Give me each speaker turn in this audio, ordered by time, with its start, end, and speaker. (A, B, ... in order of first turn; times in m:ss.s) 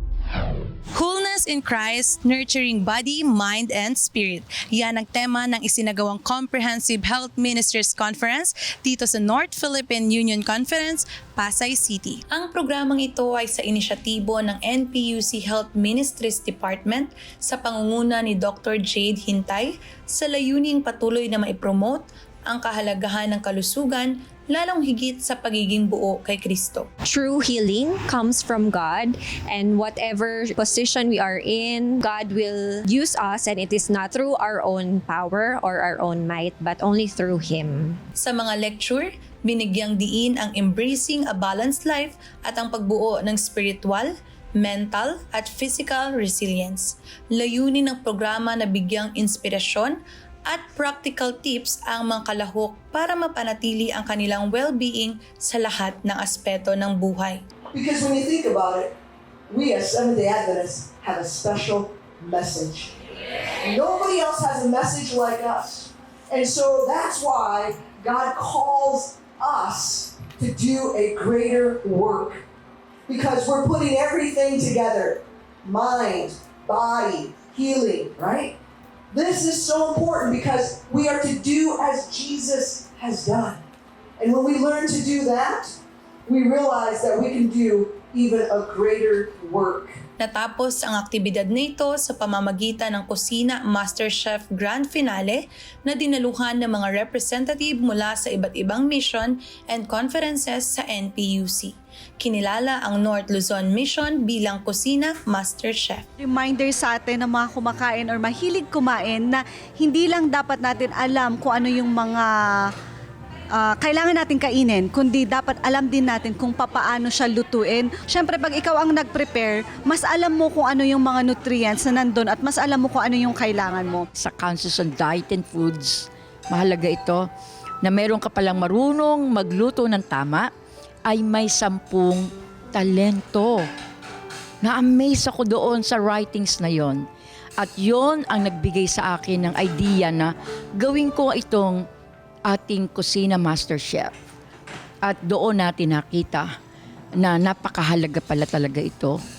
0:00.9-0:26.9 A
0:27.0-0:38.0 B
0:38.2-0:57.4 A
0:57.7-0:58.9 C
0:59.5-1:03.0 C
1:03.6-1:12.4 C
1:13.1-1:18.6 C
1:19.1-1:23.6 C
1:24.2-1:30.0 C
1:30.2-1:46.0 A
1:46.2-1:52.2 D
1:53.7-2:04.0 D
2:04.2-2:07.3 E
2:07.8-2:10.5 E
2:11.0-2:13.7 E
2:14.6-2:17.0 E
2:17.6-2:21.8 E
2:22.5-2:24.1 E
2:25.0-2:26.5 E
2:27.2-2:29.2 E